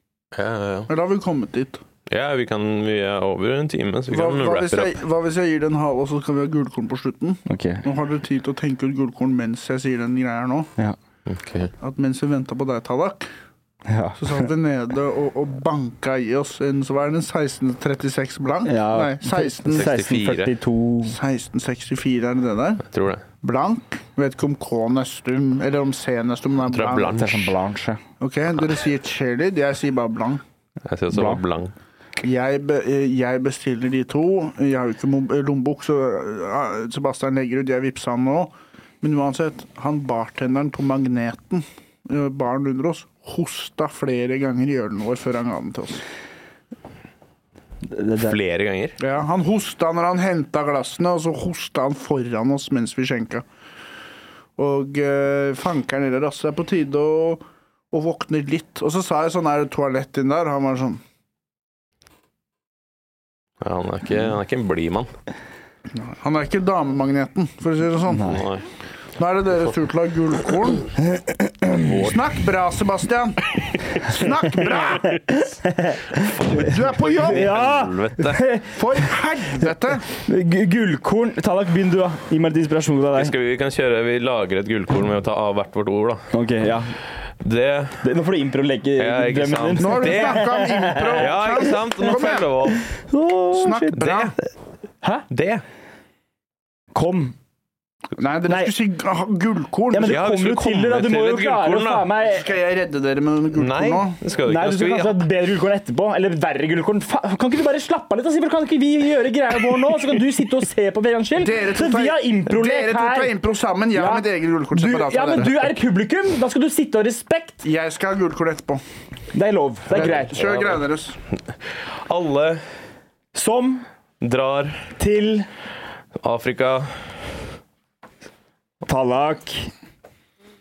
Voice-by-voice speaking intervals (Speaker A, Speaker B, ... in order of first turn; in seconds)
Speaker A: 0.3-0.9, 2.1-5.0, 11.3-11.7, 19.7-20.5, 22.9-23.2, 26.7-27.5, 30.9-31.7, 48.2-49.0, 63.6-65.1, 68.2-68.7, 71.8-72.2, 76.2-78.4, 83.2-86.3, 87.3-88.1, 89.0-90.5, 91.1-92.9, 94.0-94.3, 95.3-95.6, 100.0-102.1, 103.5-105.2, 119.9-120.8, 121.7-122.6, 124.2-124.9, 126.2-127.3
Speaker B: 0.9-1.8, 4.1-10.7, 11.8-13.3, 14.2-19.9, 21.1-22.9, 23.4-27.4, 28.2-30.4, 32.2-46.0, 49.0-53.4, 54.6-61.0, 65.9-68.4, 69.2-70.9, 71.7-75.2, 76.5-77.5, 78.7-80.1, 89.8-92.5, 93.5-94.3, 98.2-100.2, 102.2-104.2, 111.4-115.5, 117.6-118.8, 119.9-121.2
Speaker C: 7.5-7.8, 13.9-14.4, 18.6-21.1, 27.1-28.0, 31.1-31.4, 47.9-48.4, 68.1-68.4, 71.0-71.8, 74.6-76.7, 77.2-79.1, 79.6-83.3, 86.3-86.9, 88.0-91.4, 93.0-94.1, 96.9-97.3, 98.5-98.7, 99.9-102.5, 104.4-113.3, 113.9-117.6, 119.3-120.5, 123.3-123.8, 125.0-125.5, 128.9-129.7